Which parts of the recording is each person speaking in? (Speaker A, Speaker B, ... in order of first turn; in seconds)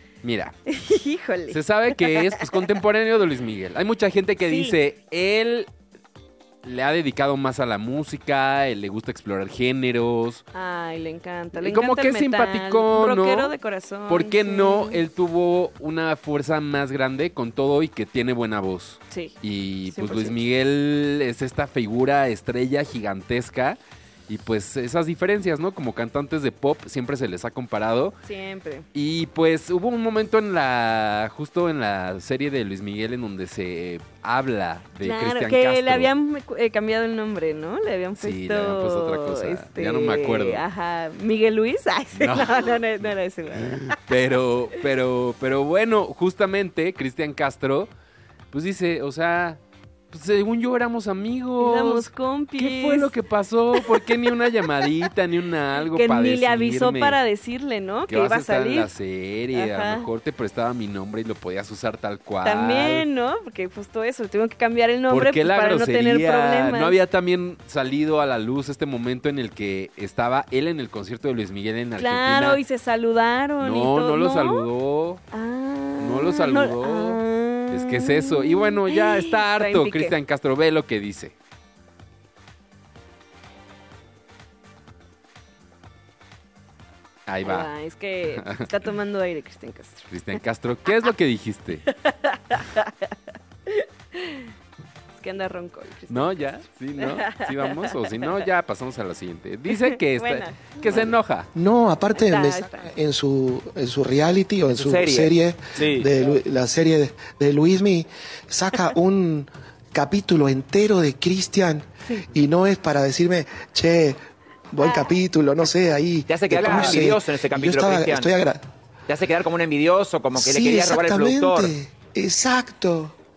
Speaker A: 0.2-0.5, 1.5-5.7, 6.6-10.4, 11.6-13.5, 14.1-28.2, 28.9-36.1, 38.2-40.6, 42.2-43.1, 43.6-47.9, 48.5-57.2, 58.1-63.0, 65.1-72.6, 73.6-75.2, 76.0-81.3, 87.3-87.7, 88.3-88.7, 90.1-91.8, 96.1-101.5
Speaker B: 0.7-2.6, 4.5-4.8, 10.5-15.0, 19.9-20.4, 28.2-28.9, 35.0-44.0, 51.6-53.1, 53.8-54.9, 55.9-58.9, 59.5-60.1, 62.4-66.9, 72.0-74.7, 75.3-80.1, 87.4-90.1, 91.9-93.1, 93.7-94.5, 95.2-98.3, 99.8-101.1, 102.2-102.9
Speaker C: 101.5-114.2, 114.7-118.6, 120.3-123.1
Speaker D: 104.8-106.1, 116.3-118.3, 119.1-121.7